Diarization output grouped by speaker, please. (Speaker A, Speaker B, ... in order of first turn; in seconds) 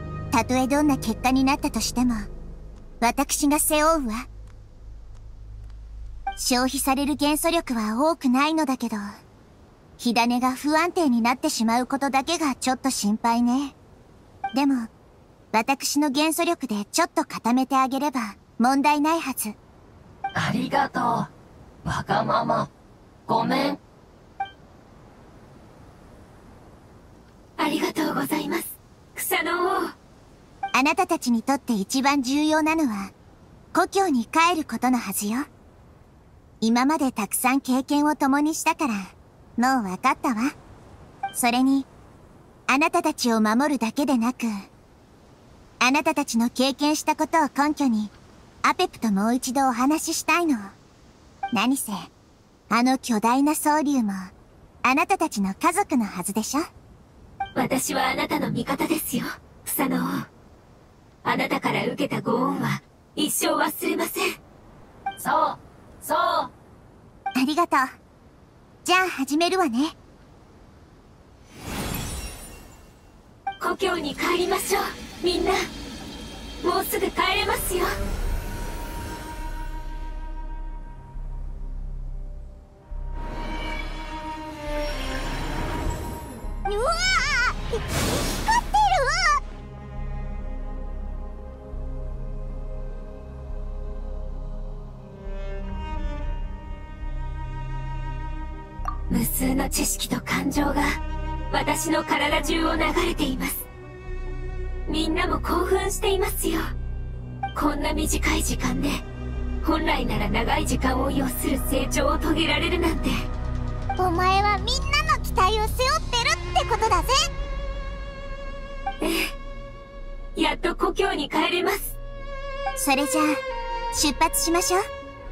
Speaker A: 0.3-2.3, 3.0-4.3, 6.4-9.1, 10.0-13.8, 14.5-14.9, 15.5-19.6, 30.7-33.1, 33.7-35.5, 36.6-40.5, 41.4-41.9, 42.7-44.5, 45.8-48.1, 48.6-50.8, 51.5-52.1, 52.7-54.3, 54.8-56.7, 67.4-68.0, 68.8-70.0, 122.8-123.4, 123.9-124.8
Speaker B: 20.4-21.3, 21.8-22.7, 23.3-23.8, 65.2-66.5
Speaker C: 27.6-29.9, 57.5-60.3, 61.2-64.4, 73.6-75.7, 76.6-78.0, 99.1-100.9, 101.5-103.7, 104.9-106.7, 107.5-109.0, 109.6-113.3, 119.0-119.3, 120.3-122.0
Speaker D: 86.7-89.4, 114.0-117.3